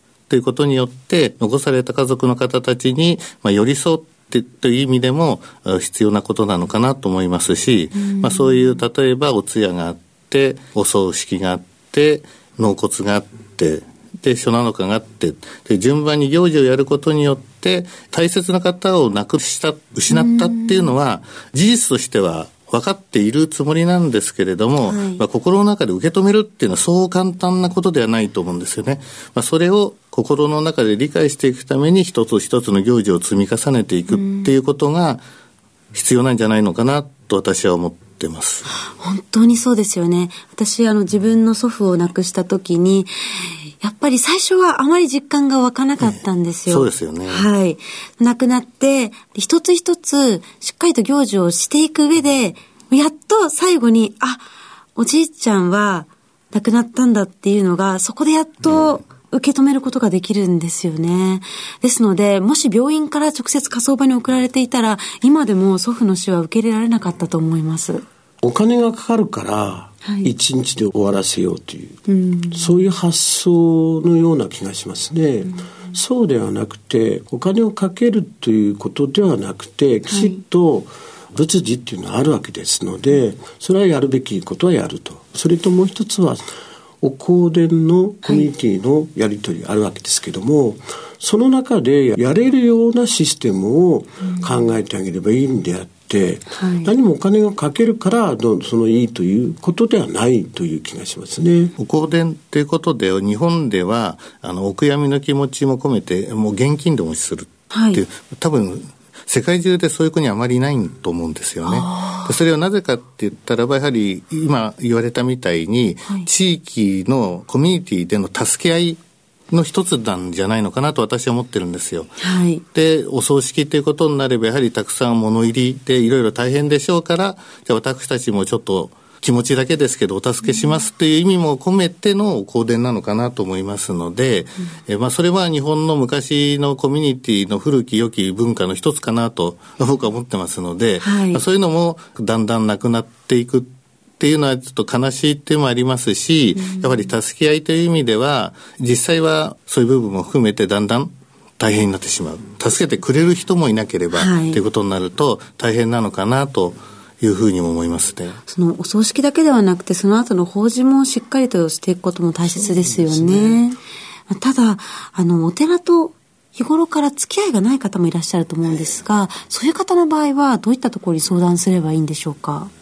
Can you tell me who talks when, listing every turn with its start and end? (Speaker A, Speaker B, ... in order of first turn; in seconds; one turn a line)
Speaker A: 0.3-35.2
Speaker B: 8.0-8.6
Speaker B: 20.1-20.9
Speaker B: 24.8-25.2
Speaker B: 34.1-34.5
Speaker A: 35.9-38.7
Speaker B: 39.0-54.5
Speaker A: 46.7-47.5
Speaker B: 55.0-68.0
Speaker C: 68.4-72.0
Speaker B: 70.0-70.3
Speaker B: 72.1-72.8
Speaker C: 72.5-86.4
Speaker B: 80.1-80.4
Speaker C: 87.0-101.7
Speaker B: 96.5-96.9
Speaker A: 101.8-119.0
Speaker B: 107.7-108.0
Speaker B: 111.7-112.3
Speaker A: 119.5-122.1
Speaker B: 122.2-122.6
Speaker A: 122.7-158.4
Speaker B: 141.0-141.4
Speaker B: 154.2-154.6
Speaker B: 158.5-172.7
Speaker C: 162.4-163.6